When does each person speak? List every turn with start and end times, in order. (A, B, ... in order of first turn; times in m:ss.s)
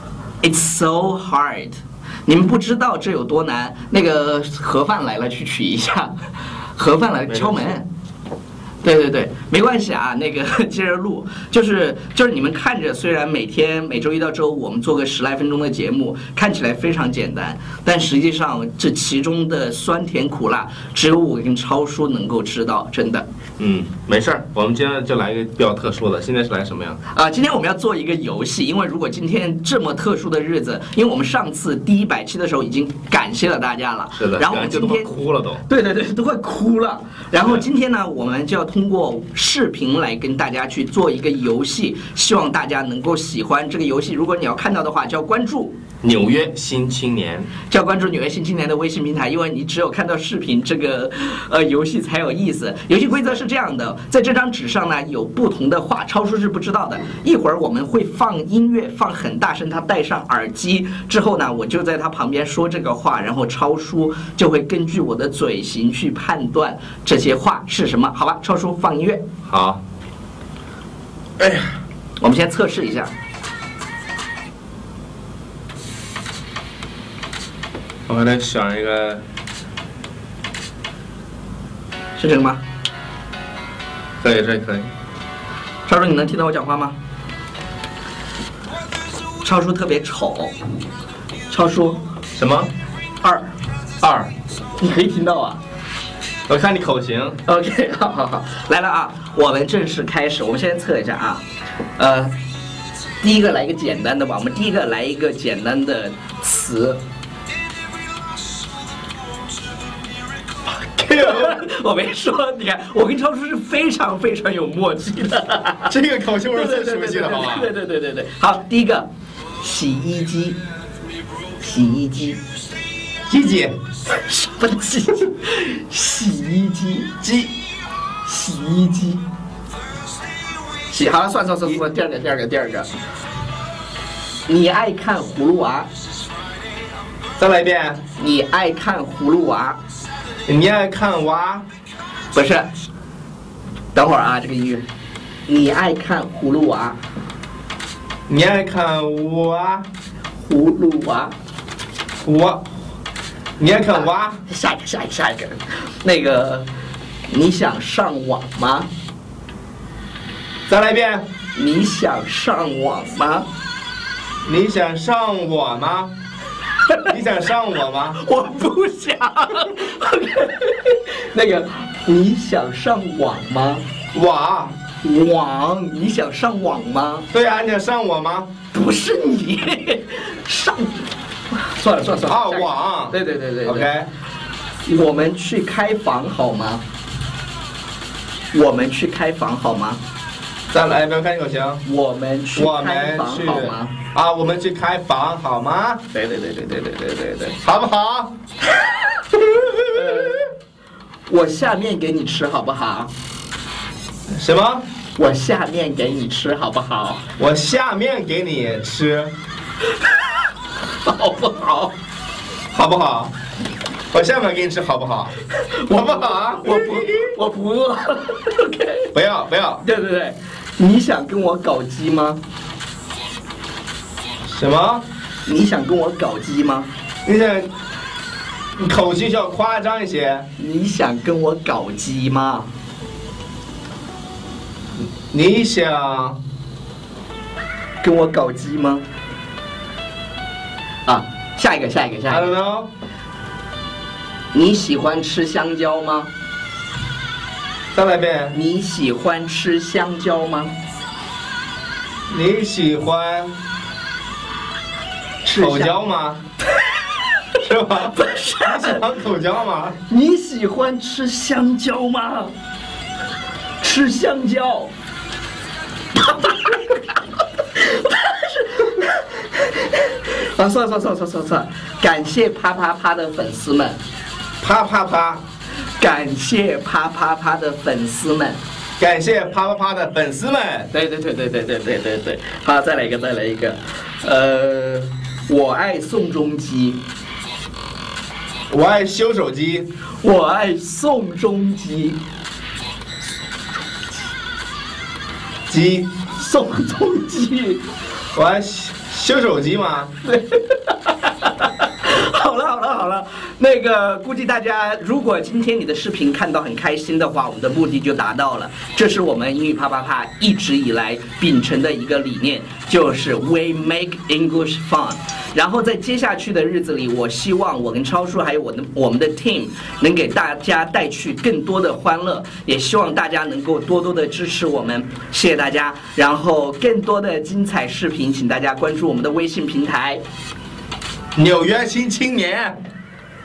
0:00.4-0:06.2 A
0:06.8-0:07.9 A
0:07.3-0:07.7 B
0:08.8-0:23.3 A
0:23.6-0:27.0 B
0:27.1-0:35.1 A
0:34.2-0:35.6 B
0:35.7-0:45.8 A
0:46.0-0:47.5 B
0:47.7-1:09.2 A
1:09.4-1:09.8 B
1:11.4-1:11.7 B
1:12.2-1:13.1 A
1:18.1-1:19.2 B
1:22.2-1:22.6 A
1:24.2-1:24.9 B
1:25.9-1:27.0 A
1:29.4-1:30.6 A
1:31.5-1:32.0 A
1:32.4-1:32.7 B
1:33.2-1:33.5 A
1:34.0-1:34.3 B
1:34.8-1:35.6 A
1:36.5-1:37.4 B
1:37.4-1:41.4 A
1:42.0-1:42.4 A
1:43.2-1:47.0 A
1:51.0-1:55.9 A
1:51.1-1:51.6 B
1:55.9-1:57.7 B
1:56.5-1:59.1 A
1:59.6-2:00.6 A
2:01.6-2:02.4 A
2:03.3-2:03.8 B
2:04.1-2:07.1 A
2:07.2-2:07.5 B
2:08.2-2:09.2 A
2:10.9-2:12.9 A
2:14.5-2:15.9 A
2:17.4-2:18.0 B
2:18.2-2:19.8 A
2:20.5-2:21.6 B
2:22.3-2:22.7 A
2:24.0-2:24.9 A
2:25.5-2:27.0 A
2:28.3-2:29.9 B
2:30.4-2:31.3 A
2:32.2-2:32.6 B
2:33.6-2:34.4 B
2:34.5-2:36.7 A
2:37.3-2:38.9 A
2:40.7-2:41.3 B
2:41.6-2:43.5 A
2:44.4-2:46.1 B
2:47.1-2:48.2 B
2:48.1-2:53.8 A
2:54.1-2:54.8 B
2:55.0-2:57.3 A
2:57.3-2:58.5 B
2:58.7-3:03.9 A
3:02.3-3:04.1 B
3:04.9-3:06.8 A
3:08.5-3:10.0 A
3:10.7-3:11.8 B
3:11.8-3:14.0 A
3:12.6-3:16.0 B
3:16.1-3:17.6 A
3:17.6-3:18.3 B
3:19.3-3:20.4 B
3:19.9-3:20.5 A
3:21.3-3:23.1 A
3:24.3-3:24.8 B
3:25.2-3:27.2 A
3:27.4-3:29.3 B
3:31.0-3:32.0 A
3:32.7-3:33.3 B
3:34.1-3:35.3 B
3:35.5-3:39.1 A
3:35.9-3:37.4 B
3:39.1-3:39.8 B
3:39.8-3:42.4 A
3:44.5-3:45.1 B
3:45.5-3:46.9 A
3:47.3-3:47.7 B
3:48.8-3:50.5 B
3:50.6-3:52.7 A
3:55.0-3:56.4 B
3:58.0-3:59.0 A
4:01.1-4:02.5 A
4:02.3-4:02.9 B
4:04.5-4:06.3 A
4:07.9-4:08.6 B
4:08.5-4:10.8 A
4:12.3-4:13.6 B
4:15.4-4:15.9 A
4:15.6-4:16.4 B
4:17.6-4:20.0 B
4:18.1-4:19.0 A
4:20.1-4:22.6 A
4:23.8-4:24.9 A
4:26.1-4:34.0 A
4:34.6-4:35.4 B
4:36.0-4:38.6 A
4:39.0-4:40.9 B
4:40.9-4:47.0 A
4:48.7-4:49.9 B
4:50.2-4:52.2 A
4:55.7-4:56.2 B
4:56.3-4:57.8 A
4:58.4-5:00.1 B
5:00.2-5:30.2 A
5:31.4-5:32.8 B